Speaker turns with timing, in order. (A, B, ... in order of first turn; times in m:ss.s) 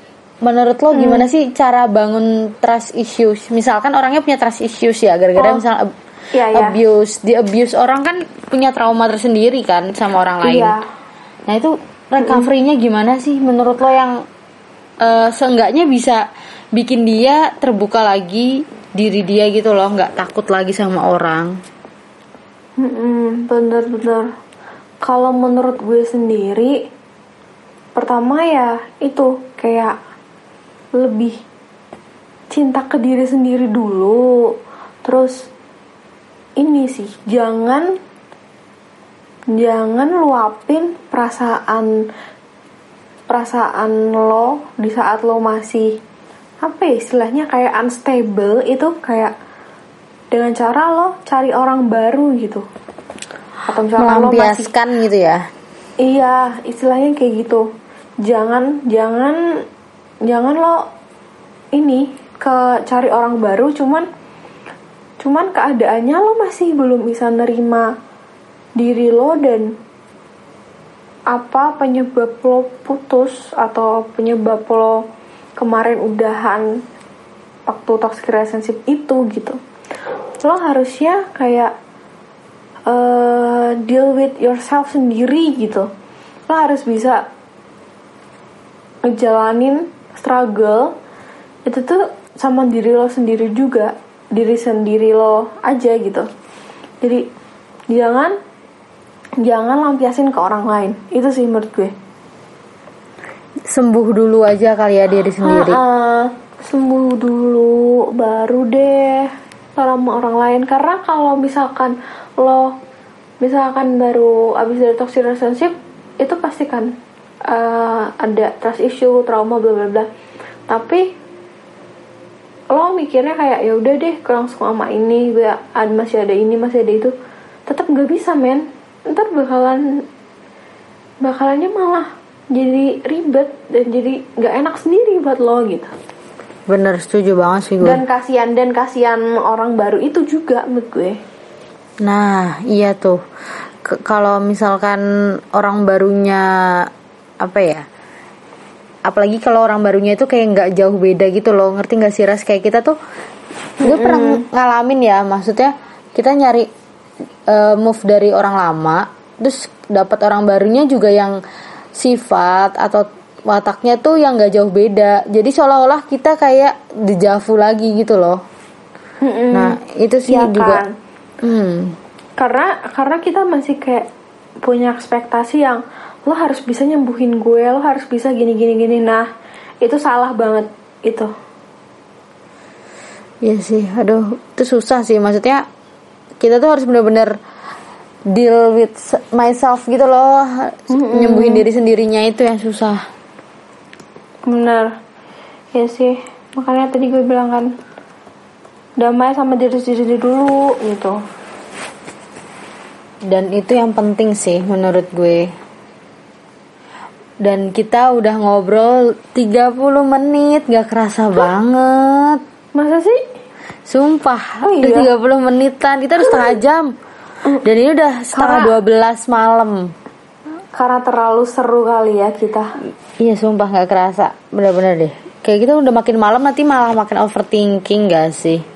0:00.4-0:05.9 A
0:00.9-0:01.3 B
0:05.4-0:05.6 B
0:06.3-0:06.8 B
0:06.5-0:10.8 A
0:10.4-0:10.8 B
0:11.5-0:14.2 A
0:12.2-0:12.5 B
0:15.0-0:16.2 A
0:16.8-0:21.6 A
0:22.8-0:24.3 B
0:25.0-0:26.8 B
0:28.0-0:30.0 B
0:31.0-0:31.4 B
0:32.5-0:34.5 B
0:35.0-0:35.4 B
0:36.6-0:37.9 B
0:39.5-0:42.0 B
0:43.3-0:46.0 B
0:46.6-0:49.3 B
0:50.3-0:52.6 B
0:53.7-0:54.7 B
0:54.0-0:55.5 A
0:56.0-0:57.7 B
0:58.2-0:59.4 B
1:00.2-1:00.8 B
1:01.8-1:04.1 B
1:05.2-1:07.9 B
1:08.8-1:09.8 B
1:11.3-1:15.0 B
1:15.6-1:16.8 B
1:17.7-1:19.6 B
1:20.4-1:21.7 B
1:22.9-1:25.9 B
1:26.5-1:27.2 B
1:29.0-1:30.9 B
1:31.7-1:36.3 B
1:37.9-1:38.4 B
1:39.4-1:41.9 B
1:43.7-1:45.8 A
1:45.4-1:52.7 B
1:53.4-1:56.9 B
1:57.5-2:00.1 B
2:00.7-2:01.1 B
2:02.7-2:07.1 B
2:07.7-2:09.8 B
2:11.2-2:15.9 B
2:16.7-2:18.0 A
2:17.8-2:21.2 B
2:22.0-2:23.2 A
2:23.8-2:26.9 A
2:27.4-2:27.9 A
2:29.0-2:33.0 A
2:33.8-2:34.4 B
2:33.8-2:36.7 A
2:37.5-2:41.4 A
2:42.0-2:48.4 A
2:49.2-2:49.8 B
2:49.5-2:50.8 A
2:50.3-2:50.9 B
2:51.4-2:52.0 A
2:52.4-2:54.1 B
2:54.6-2:59.3 B
2:59.8-3:01.3 B
3:03.4-3:05.7 A
3:06.4-3:07.4 A
3:08.3-3:13.1 A
3:10.9-3:11.6 B
3:14.5-3:14.9 B
3:15.8-3:17.7 B
3:19.0-3:21.2 B
3:23.3-3:25.5 A
3:27.4-3:32.4 A
3:32.8-3:33.2 B
3:33.9-3:37.0 A
3:34.6-3:35.1 B
3:37.6-3:39.9 A
3:38.4-3:38.8 B
3:40.8-3:42.7 B
3:43.2-3:48.6 A